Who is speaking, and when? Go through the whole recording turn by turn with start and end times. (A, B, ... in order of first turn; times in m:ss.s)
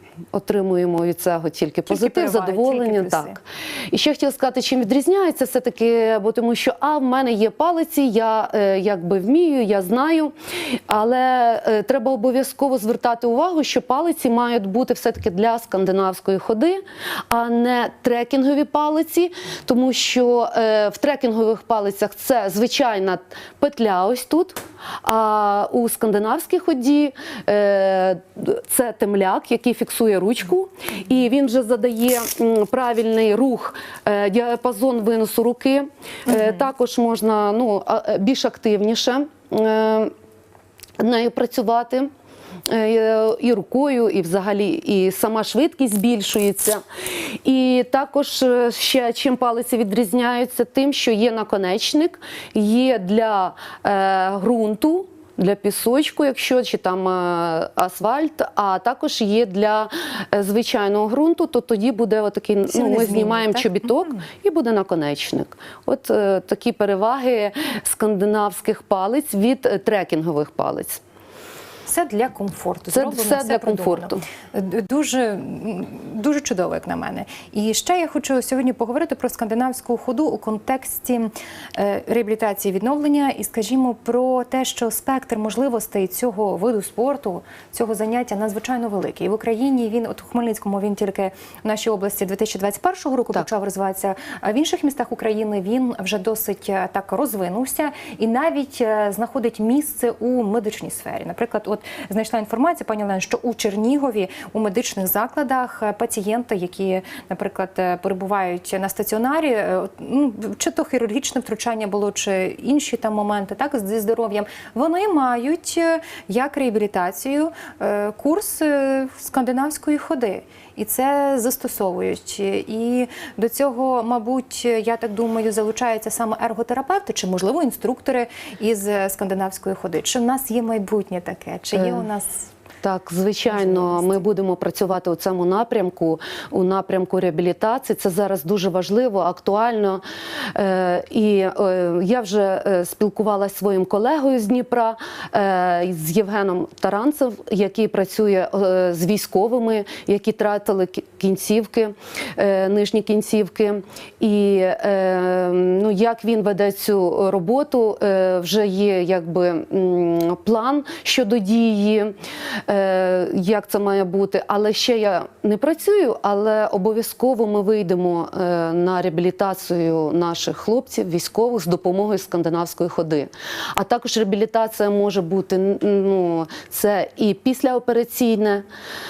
0:00.3-0:40.1 A
0:01.9-0:03.4 B
0:41.0-0:42.1 A
0:42.7-0:46.8 A
0:47.4-1:11.0 A
1:02.7-1:04.2 B
1:11.9-2:12.5 B
1:12.9-1:14.2 A
2:11.8-2:12.0 A
2:12.8-2:20.0 A
2:13.5-2:14.2 B
2:20.6-2:42.1 A
2:42.7-2:58.6 A